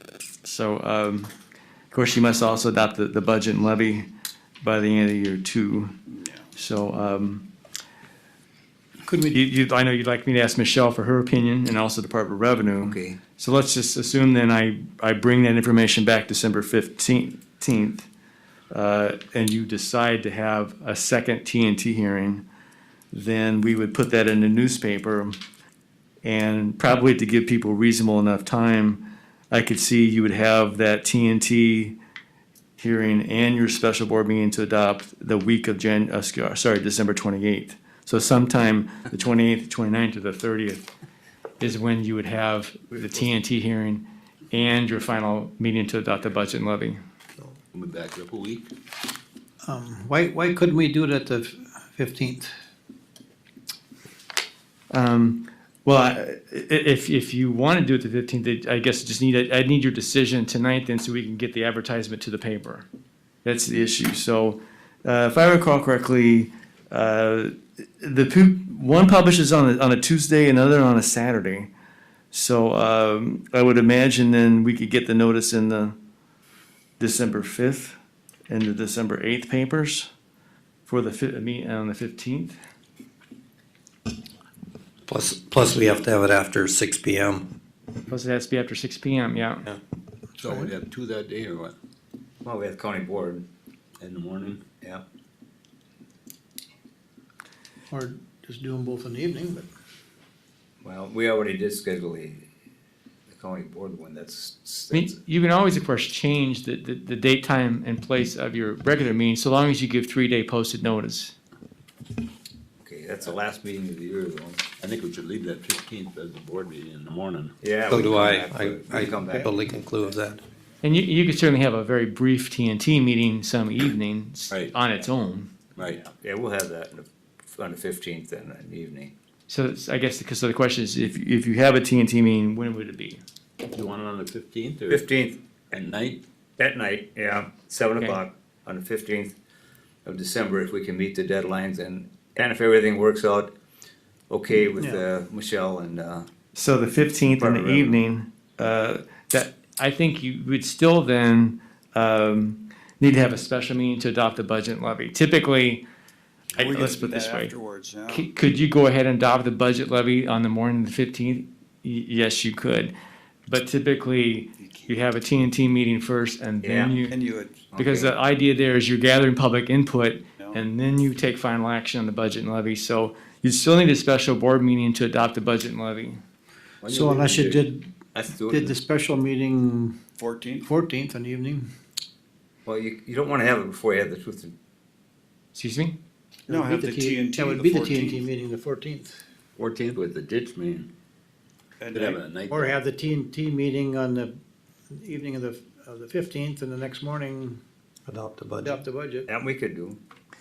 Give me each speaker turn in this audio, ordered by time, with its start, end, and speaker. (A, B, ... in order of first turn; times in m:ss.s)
0:00.4-0:01.3 A
0:01.9-0:04.1 A
0:04.6-0:05.9 A
0:06.5-0:07.5 A
0:09.0-0:09.4 B
0:09.3-0:18.1 A
0:12.8-0:13.2 C
0:18.7-0:22.4 A
0:23.1-0:25.4 A
0:26.2-0:32.0 A
0:32.8-0:40.8 A
0:41.6-0:47.0 A
0:47.7-0:48.7 D
0:49.6-0:52.5 B
0:54.9-1:02.9 A
1:03.4-1:11.7 A
1:12.3-1:16.0 A
1:17.0-1:18.0 A
1:18.5-1:20.1 A
1:20.8-1:22.6 A
1:25.0-1:27.5 E
1:28.1-1:29.6 A
1:30.4-1:31.7 D
1:32.4-1:33.4 C
1:34.0-1:34.8 D
1:34.7-1:35.0 C
1:37.9-1:39.7 B
1:40.8-1:42.5 C
1:43.3-1:45.2 C
1:44.9-1:51.3 A
1:52.8-1:54.7 C
1:54.8-1:57.6 D
1:57.6-1:59.5 C
1:57.9-2:00.4 E
2:00.8-2:05.6 A
2:05.8-2:06.1 D
2:06.1-2:09.1 C
2:09.5-2:13.2 A
2:13.7-2:15.1 D
2:14.9-2:15.4 C
2:15.7-2:16.2 D
2:16.6-2:19.4 C
2:20.0-2:23.5 C
2:24.3-2:26.3 C
2:24.8-2:25.0 B
2:26.5-2:35.8 A
2:27.3-2:28.0 C
2:36.6-2:37.5 A
2:36.6-2:38.3 F
2:38.1-2:42.9 A
2:43.5-2:47.1 A
2:46.6-2:47.0 C
2:47.1-2:47.6 F
2:47.7-2:48.1 C
2:47.8-2:56.2 A
2:56.8-2:57.6 D
2:56.8-3:00.0 B
2:58.1-2:58.7 C
3:00.2-3:00.6 F
3:00.6-3:01.6 B
3:02.6-3:04.5 C
3:05.5-3:06.0 A
3:06.5-3:08.2 F
3:06.5-3:09.1 B
3:09.6-3:10.9 D
3:11.8-3:12.2 F
3:11.9-3:12.8 D
3:12.5-3:14.3 B
3:14.9-3:17.6 B
3:18.1-3:18.8 E
3:18.6-3:19.2 B
3:19.3-3:20.0 C